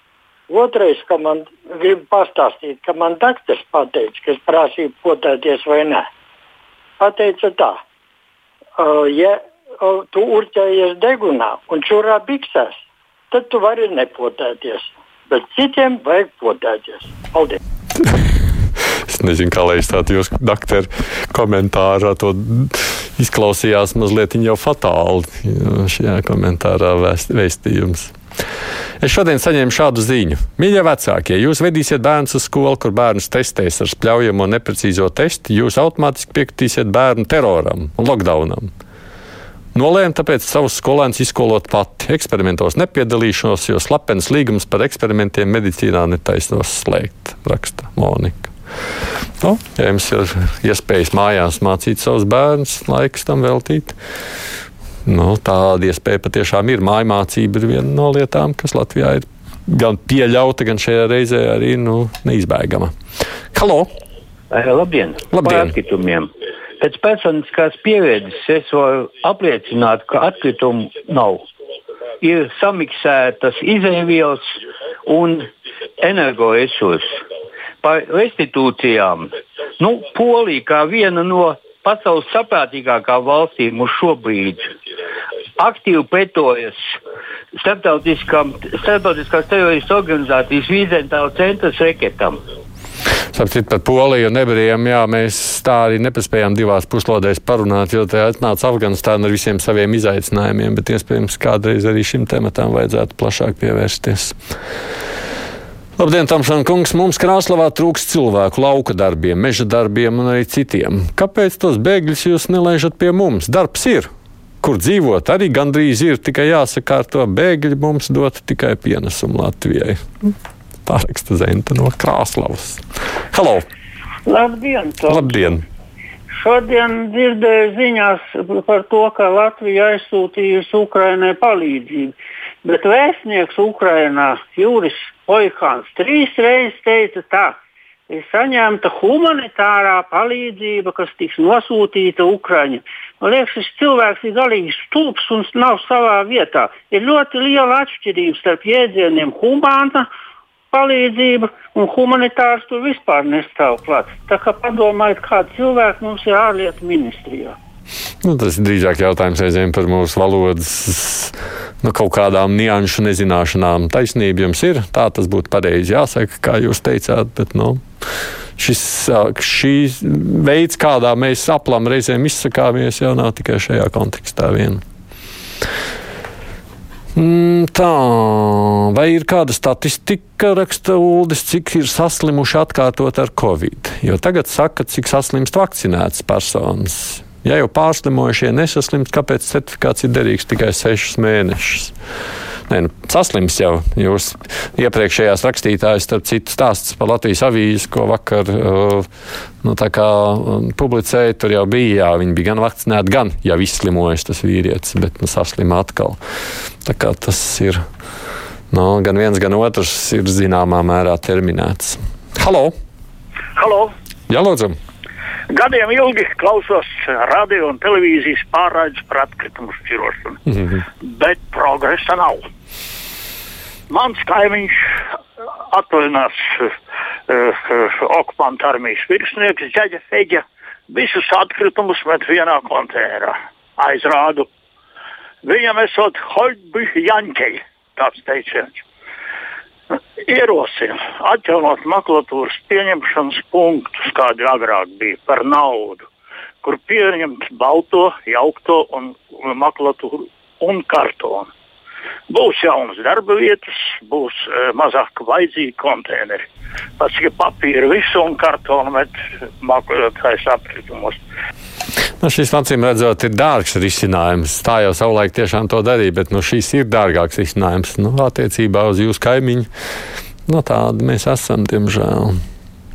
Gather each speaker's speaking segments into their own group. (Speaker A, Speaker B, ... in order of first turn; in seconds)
Speaker A: 0.5-6.1, 7.0-7.8, 8.8-12.8, 13.3-17.6
Speaker B: 19.1-28.1, 29.0-38.7, 39.8-48.5, 49.4-54.0, 55.1-62.9, 63.5-63.9, 65.3-65.7, 93.3-104.4, 106.0-114.1, 114.6-120.0, 120.9-123.7, 125.1-125.6, 158.2-167.8, 168.6-174.8, 177.2-191.9, 192.7-199.1, 199.6-206.2, 206.8-207.8, 208.7-212.7, 214.3-214.8, 262.2-269.7, 270.5-272.4
Speaker C: 64.5-71.4, 72.2-77.2, 77.8-84.7, 85.6-87.0, 87.5-92.4
Speaker D: 124.3-125.5, 126.4-132.1, 132.6-137.6, 138.1-150.1, 150.7-157.6
Speaker E: 213.6-213.9, 215.5-220.4, 221.0-222.4, 223.9-224.8, 225.7-226.7, 227.3-234.5, 235.4-238.8, 240.3-246.1, 246.6-251.5, 252.3-256.4, 257.0-261.2